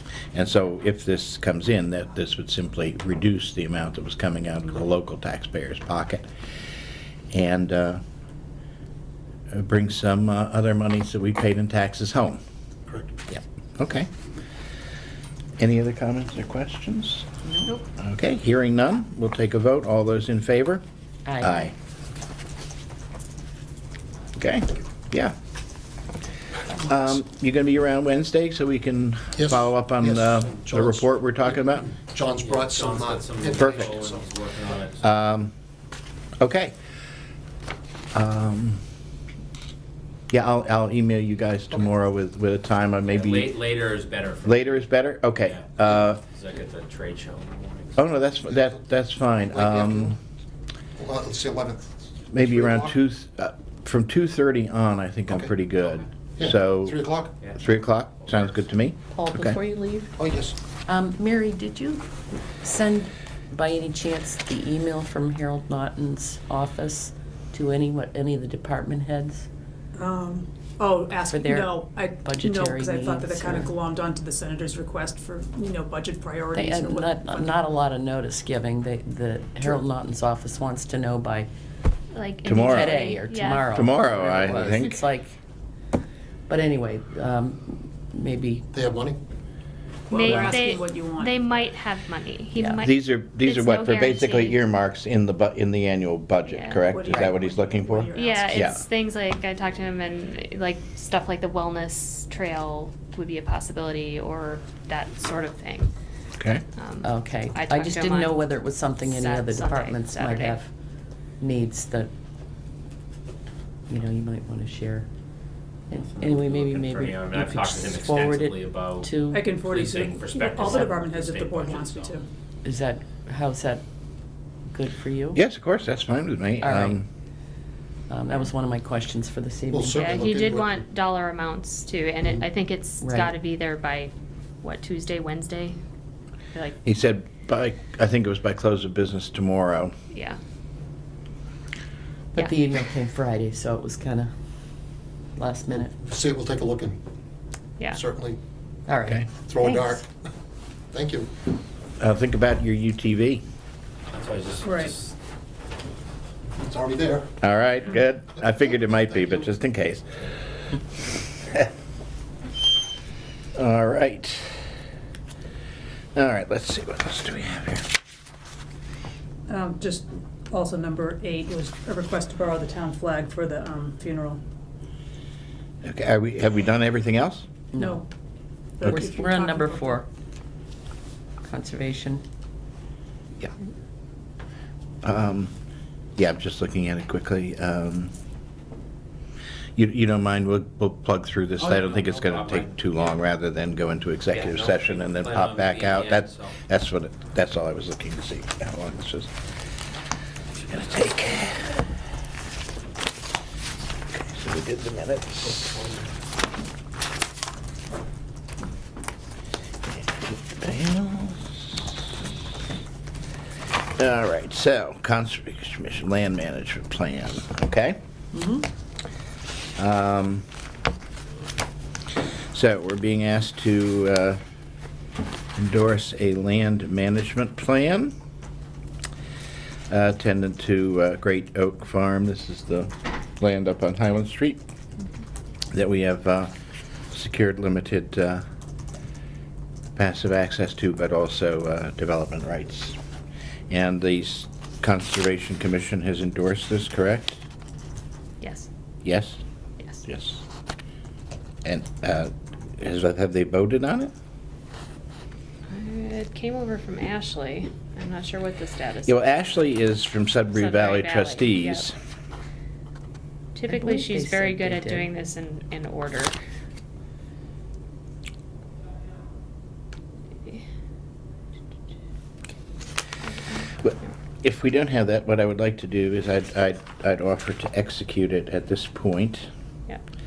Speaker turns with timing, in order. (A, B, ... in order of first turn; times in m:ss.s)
0:00.3-0:06.2 A
0:07.3-0:08.0 A
0:09.5-0:12.4 A
0:12.9-0:13.1 B
0:13.3-0:14.1 A
0:15.6-0:17.3 A
0:18.0-0:20.8 A
0:21.2-0:21.7 C
0:21.4-0:21.7 A
0:24.4-0:25.3 A
0:26.8-0:31.9 A
0:29.4-0:34.3 B
0:32.4-0:35.1 D
0:35.0-0:35.5 A
0:36.4-0:36.8 A
0:38.1-0:38.8 A
0:40.3-0:43.6 A
0:43.0-0:48.2 D
0:44.4-0:46.2 A
0:48.0-0:50.2 A
0:49.4-0:50.2 B
0:51.0-0:52.9 B
0:52.3-0:57.0 A
0:56.4-0:57.4 B
0:57.4-0:58.4 D
0:57.6-0:59.6 A
0:59.1-1:00.2 C
1:00.2-1:00.6 B
1:00.8-1:09.5 C
1:10.0-1:17.6 E
1:11.3-1:13.7 C
1:16.5-1:21.5 C
1:22.1-1:23.7 F
1:22.4-1:23.0 A
1:22.6-1:25.4 C
1:23.7-1:25.0 A
1:26.5-1:28.7 C
1:28.7-1:29.2 B
1:30.1-1:31.6 E
1:30.1-1:34.6 F
1:30.2-1:30.6 C
1:32.5-1:32.8 C
1:32.8-1:38.8 A
1:36.4-1:36.8 F
1:36.9-1:38.6 E
1:37.1-1:37.4 C
1:38.1-1:45.9 F
1:46.4-1:46.6 A
1:46.7-1:48.4 F
1:47.0-1:50.7 C
1:49.0-1:50.6 F
1:51.4-1:52.1 C
1:53.9-1:55.1 C
1:55.9-1:59.5 C
1:56.1-2:02.2 D
1:59.3-2:02.2 E
2:00.6-2:00.9 C
2:02.6-2:03.8 C
2:04.7-2:05.4 C
2:05.3-2:07.0 A
2:06.6-2:07.0 C
2:08.1-2:10.2 C
2:09.7-2:10.8 B
2:09.9-2:15.8 F
2:13.0-2:13.3 C
2:16.8-2:19.9 A
2:20.1-2:20.4 F
2:22.3-2:24.3 C
2:25.4-2:26.0 C
2:26.0-2:27.0 B
2:27.9-2:28.4 B
2:28.9-2:29.3 C
2:29.4-2:30.1 B
2:30.9-2:31.3 B
2:32.0-2:33.4 A
2:34.1-2:35.1 D
2:34.6-2:34.9 E
2:36.6-2:37.3 B
2:37.4-2:40.2 A
2:43.5-2:44.6 A
2:46.1-2:47.9 A
2:49.5-2:54.4 E
2:55.8-2:57.5 A
2:57.7-2:58.0 C
2:57.8-2:58.0 E
2:58.8-3:00.0 E
2:58.8-3:00.0 C
3:01.4-3:02.2 C
3:05.0-3:05.5 A
3:06.2-3:08.1 A
3:09.8-3:19.3 A
3:11.6-3:13.2 D
3:14.3-3:16.6 D
3:20.7-3:21.8 A
3:24.1-3:25.8 A
3:25.6-3:26.0 B
3:29.9-3:32.1 A
3:34.0-3:38.0 A
3:38.3-3:38.7 C
3:39.8-3:40.4 A
3:42.5-3:44.4 A
3:45.6-3:48.1 A
3:49.9-3:54.6 A
3:55.7-3:56.5 A
3:57.1-3:58.4 A
4:00.0-4:03.0 A
4:03.7-4:07.4 A
4:08.4-4:08.7 F
4:09.0-4:09.4 A
4:10.0-4:10.4 A
4:11.6-4:14.1 A
4:15.7-4:19.2 F
4:19.0-4:21.9 A
4:20.5-4:21.9 F
4:23.5-4:26.3 F
4:23.7-4:25.1 C
4:33.8-4:39.5 A